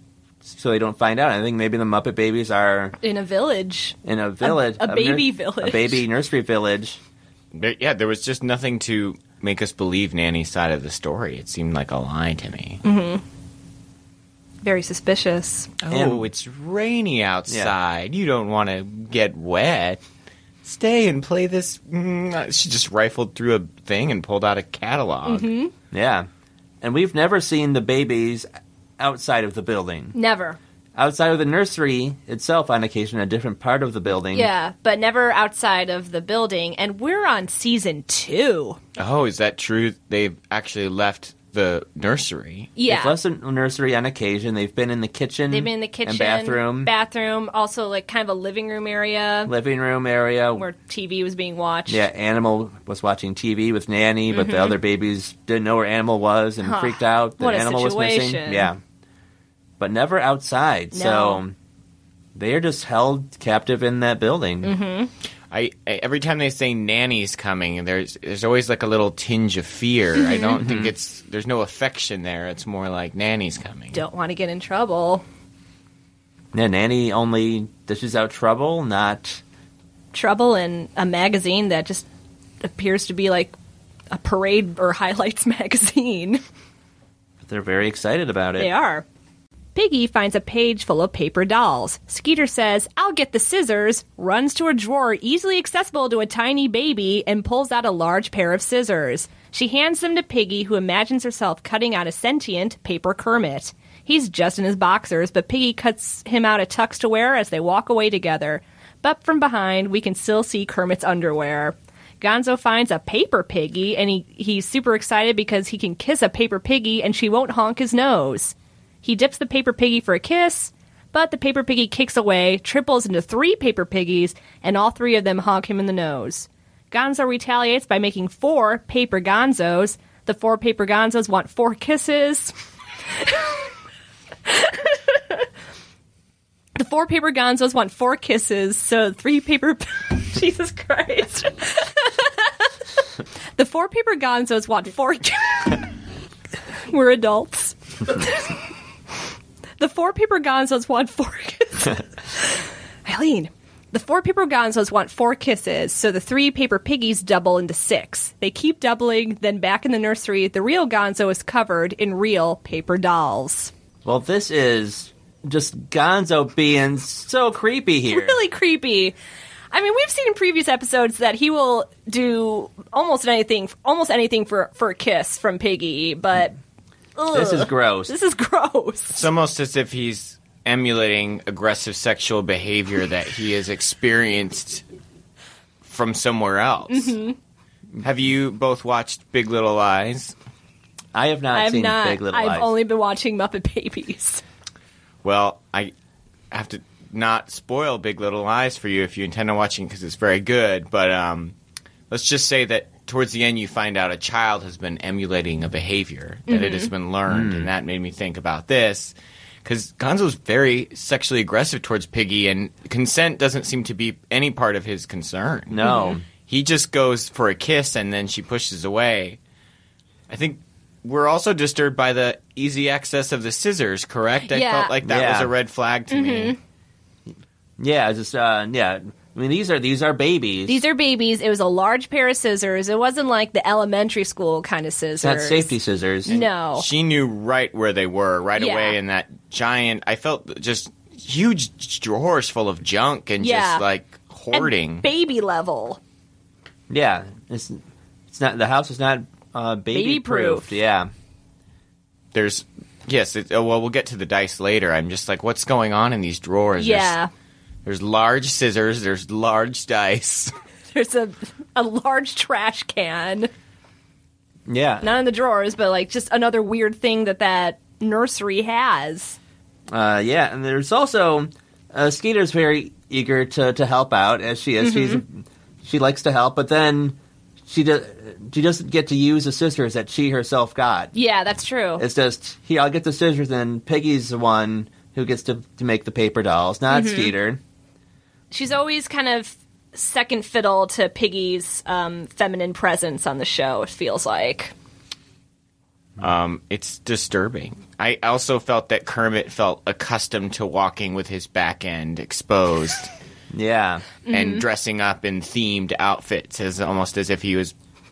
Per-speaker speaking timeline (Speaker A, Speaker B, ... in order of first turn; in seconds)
Speaker A: 0.4-3.0, 4.0-7.0, 15.9-16.3, 17.5-17.7, 25.9-26.3, 26.8-28.4, 29.0-30.1, 30.9-34.5, 42.9-46.9, 49.5-50.6, 51.9-58.8, 59.8-61.5, 62.3-64.7, 70.6-70.9, 76.5-79.4, 87.4-88.7, 164.0-168.4, 177.3-178.1, 191.1-192.7, 207.3-207.7, 215.7-216.2, 225.0-225.5, 227.8-230.8, 235.2-236.3, 246.9-251.1, 264.7-265.1, 269.9-281.1, 282.0-287.6, 303.5-304.1
Speaker B: 3.0-6.0, 12.8-13.2, 14.6-15.7, 25.2-25.7, 30.1-30.6, 34.3-38.8, 42.8-43.2, 45.5-49.5, 50.5-52.0, 54.3-54.8, 56.6-58.7, 60.9-61.4, 64.6-65.1, 70.2-70.5, 73.9-75.2, 80.1-82.0, 82.6-83.5, 84.1-86.4, 88.6-89.0, 89.7-132.5, 133.2-133.5, 134.4-135.4, 136.8-142.7, 143.6-145.9, 146.9-148.6, 149.8-163.7, 168.1-169.1, 169.7-176.6, 177.2-179.2, 186.9-187.3, 191.5-194.4, 206.5-206.9, 215.8-216.2, 224.5-224.9, 226.1-226.6, 230.7-235.7, 236.2-236.8, 238.6-239.0, 243.4-243.8, 244.5-246.0, 249.9-250.8, 256.8-257.3, 260.9-263.5, 265.0-269.4, 274.8-275.2, 281.1-282.0, 286.9-287.3, 288.5-294.7, 304.2-304.6
Speaker C: 7.5-12.8, 15.8-20.0, 20.6-25.5, 39.0-42.7, 65.5-74.0, 179.1-184.8, 185.8-187.2, 188.0-190.3, 195.2-195.9, 196.5-201.5, 202.1-219.4, 220.3-226.6, 236.7-245.1, 252.3-257.2, 257.8-260.5, 296.2-303.1, 304.3-307.7